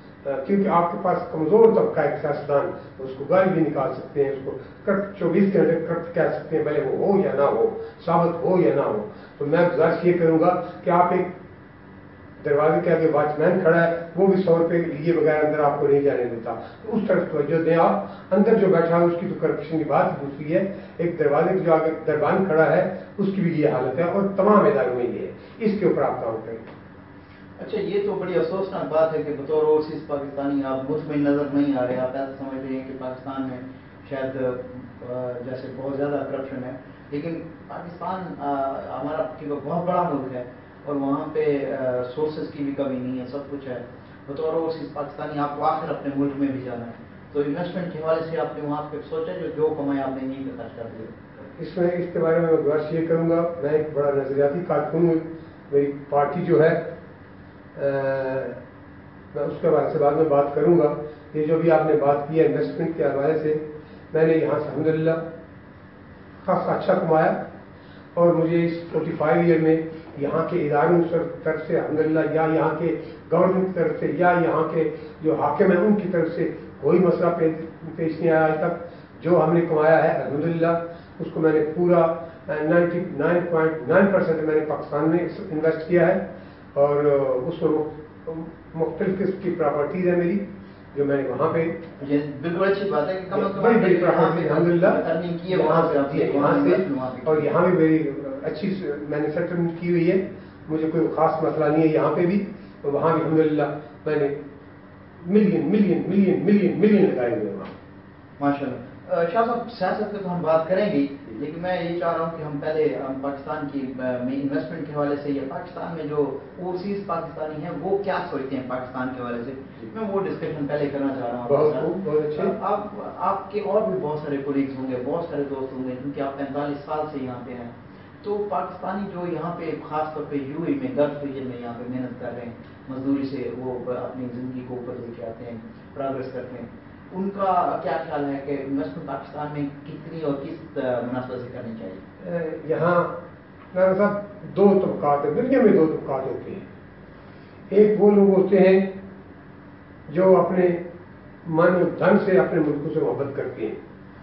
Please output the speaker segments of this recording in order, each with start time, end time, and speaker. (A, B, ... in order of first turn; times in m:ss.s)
0:00.2-0:11.3 A
0:12.4-0:26.6 A
0:27.6-0:51.1 B
0:51.6-0:56.8 A
0:57.7-0:58.6 A
0:59.3-1:05.2 A
1:06.4-1:07.3 A
1:08.1-1:26.2 A
1:26.7-1:30.4 A
1:30.9-1:31.8 A
1:32.0-1:37.6 B
1:33.3-1:44.4 A
1:45.2-1:47.7 A
1:48.4-2:22.0 B
2:01.4-2:02.5 A
2:22.2-2:23.1 A
2:23.7-2:26.7 A
2:27.7-2:28.9 A
2:30.1-2:30.8 A
2:31.4-2:33.7 A